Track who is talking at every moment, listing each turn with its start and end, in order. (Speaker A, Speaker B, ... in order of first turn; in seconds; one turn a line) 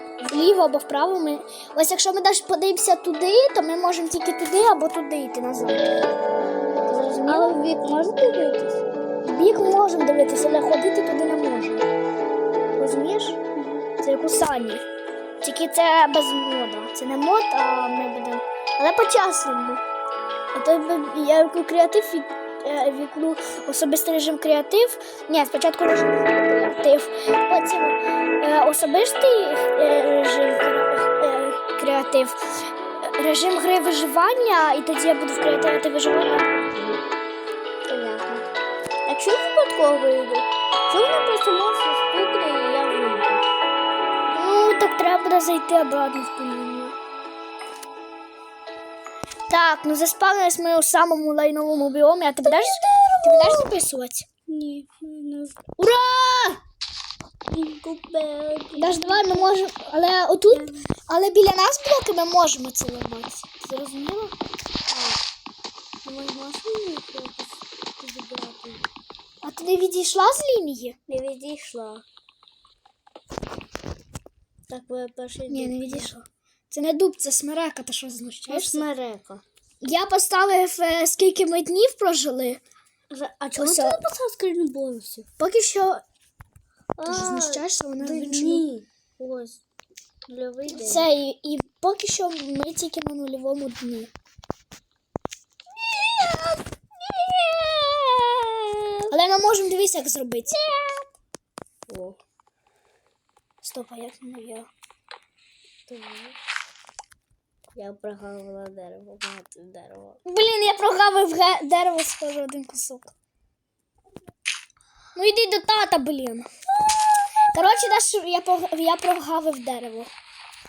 Speaker A: 0.3-6.1
Speaker A: 6.8-7.5
Speaker B: 7.3-8.8
Speaker A: 9.2-11.9
Speaker A: 12.8-13.4
Speaker B: 13.6-13.9
Speaker A: 14.0-14.8
Speaker A: 15.4-19.8
Speaker A: 20.5-32.4
Speaker A: 33.0-37.0
Speaker B: 37.8-38.5
Speaker B: 39.0-43.5
Speaker A: 44.3-47.0
Speaker A: 49.5-54.2
Speaker B: 52.5-53.7
Speaker B: 54.5-55.6
Speaker A: 55.8-56.6
Speaker B: 57.5-59.5
Speaker A: 58.8-64.4
Speaker B: 60.5-60.9
Speaker B: 64.9-65.2
Speaker B: 66.0-68.8
Speaker A: 69.4-71.0
Speaker B: 71.1-72.0
Speaker B: 74.7-76.1
Speaker A: 75.5-78.8
Speaker B: 78.5-79.4
Speaker A: 79.8-82.6
Speaker B: 83.1-85.3
Speaker A: 83.6-84.0
Speaker A: 85.4-86.0
Speaker B: 87.0-89.6
Speaker A: 87.1-88.7
Speaker B: 90.3-91.0
Speaker A: 90.7-94.1
Speaker B: 95.8-99.1
Speaker A: 99.1-100.6
Speaker B: 100.5-101.1
Speaker B: 101.9-102.2
Speaker A: 103.6-104.7
Speaker B: 105.9-106.4
Speaker B: 107.8-110.2
Speaker A: 110.2-113.1
Speaker A: 115.1-116.5
Speaker A: 117.5-120.1